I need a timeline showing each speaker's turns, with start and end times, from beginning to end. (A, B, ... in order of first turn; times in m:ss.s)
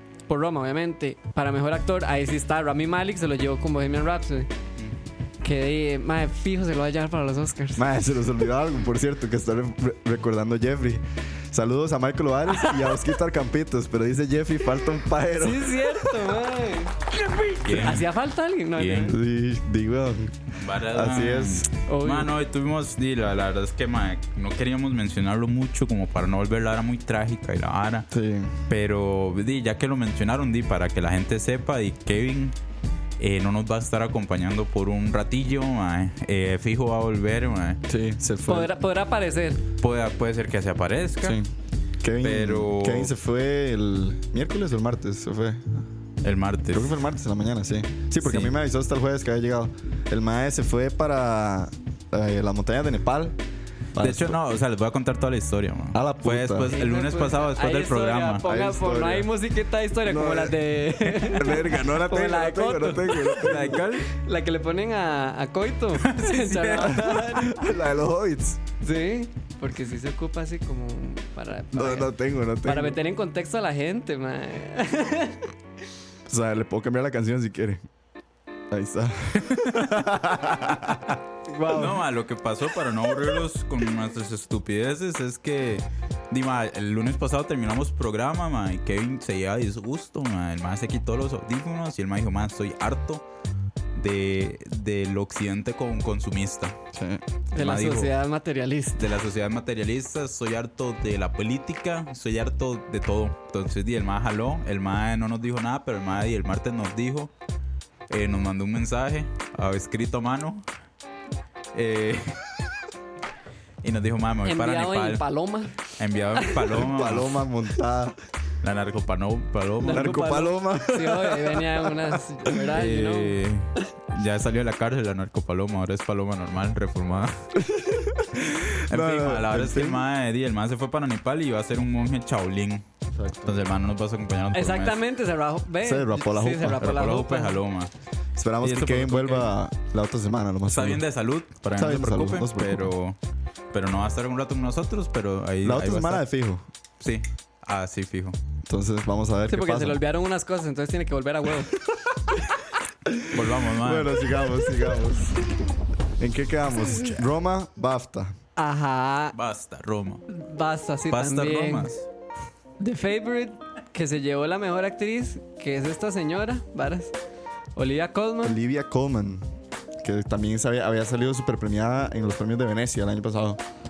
0:00.3-0:04.5 A
0:05.4-0:07.8 A
0:07.8-0:16.1 B
0:15.4-0:19.2 A
0:17.6-0:18.1 C
0:18.8-0:19.2 C
0:19.1-0:20.4 B
0:20.6-0:28.1 C
0:20.9-0:21.7 B
0:21.9-0:22.3 A
0:28.1-0:28.5 B
0:28.7-0:32.6 C
0:33.2-0:37.8 C
0:37.9-0:38.7 B
0:38.5-0:39.6 A
0:39.8-0:41.4 C
0:41.2-0:45.8 B
0:42.2-0:43.1 C
0:46.2-0:47.0 C
0:46.7-0:53.4 B
0:48.2-0:48.6 C
0:53.9-0:54.4 B
0:54.0-0:58.4 C
0:55.9-0:56.7 B
0:56.7-1:07.7 A
0:58.4-0:59.3 B
1:00.0-1:03.8 B
1:03.4-1:04.1 C
1:06.0-1:07.1 C
1:06.8-1:08.6 B
1:08.8-1:15.5 A
1:11.7-1:13.0 B
1:16.3-1:17.8 B
1:18.7-1:21.2 B
1:19.4-1:20.0 C
1:21.5-1:22.0 A
1:21.7-1:33.2 C
1:34.0-1:36.8 C
1:36.9-1:37.2 B
1:37.5-1:39.1 A
1:37.6-1:38.1 C
1:39.0-1:47.3 C
1:48.1-1:50.6 C
1:51.7-1:52.4 C
1:53.8-1:55.2 C
1:54.4-1:55.8 A
1:55.9-1:57.4 C
1:56.7-1:58.2 B
1:58.6-2:00.2 C
1:59.8-2:03.4 A
1:59.8-2:02.5 B
2:02.7-2:07.5 C
2:07.6-2:10.0 B
2:08.7-2:12.8 C
2:13.1-2:13.7 B
2:13.4-2:15.0 C
2:14.5-2:17.6 A
2:15.8-2:16.9 B
2:16.8-2:17.9 C
2:18.4-2:21.0 B
2:18.6-2:19.5 C
2:20.7-2:23.2 C
2:21.8-2:22.9 B
2:23.7-2:26.2 C
2:25.6-2:26.6 B
2:27.0-2:28.4 C
2:28.6-2:30.0 B
2:29.5-2:31.7 A
2:33.1-2:35.4 B
2:33.3-2:34.2 C
2:36.2-2:38.4 B
2:38.6-2:39.4 A
2:39.3-2:40.2 C
2:40.3-2:42.0 A
2:41.1-2:42.0 C
2:42.8-2:47.1 A
2:47.8-2:48.6 A
2:48.4-2:49.4 B
2:50.0-2:53.6 B